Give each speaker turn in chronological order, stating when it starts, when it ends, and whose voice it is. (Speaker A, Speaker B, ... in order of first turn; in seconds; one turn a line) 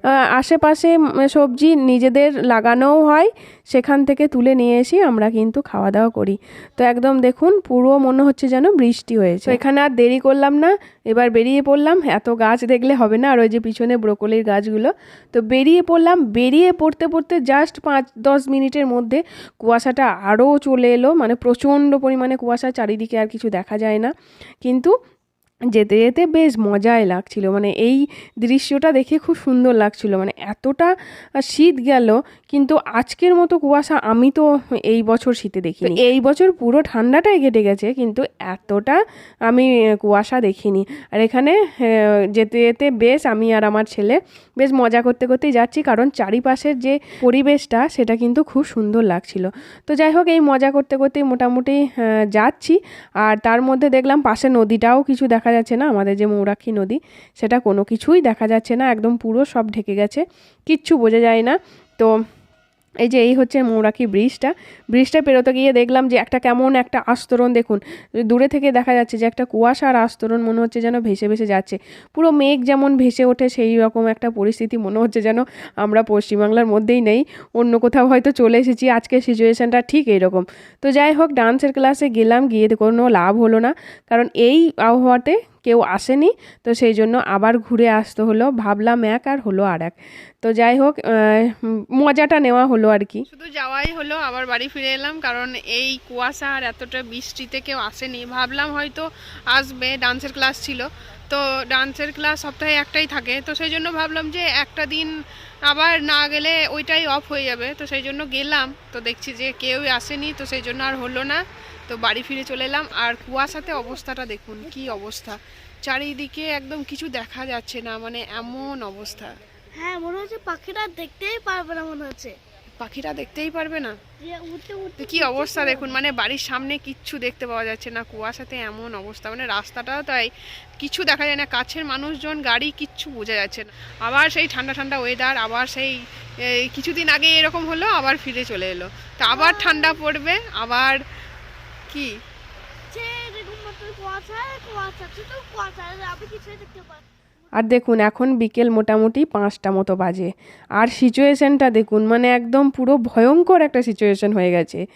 Speaker A: 0.3-24.1
Speaker A: 24.6-24.9
Speaker A: 25.7-30.9
Speaker A: 31.4-62.1
Speaker A: 63.0-93.3
Speaker B: 93.3-105.1
Speaker B: 105.7-119.3
Speaker C: 114.6-114.9
Speaker C: 119.8-122.4
Speaker B: 122.8-123.9
Speaker C: 124.2-126.0
Speaker B: 125.0-136.0
Speaker B: 136.5-141.0
Speaker C: 139.3-140.0
Speaker A: 139.3-139.6
Speaker C: 142.9-147.0
Speaker A: 147.6-154.8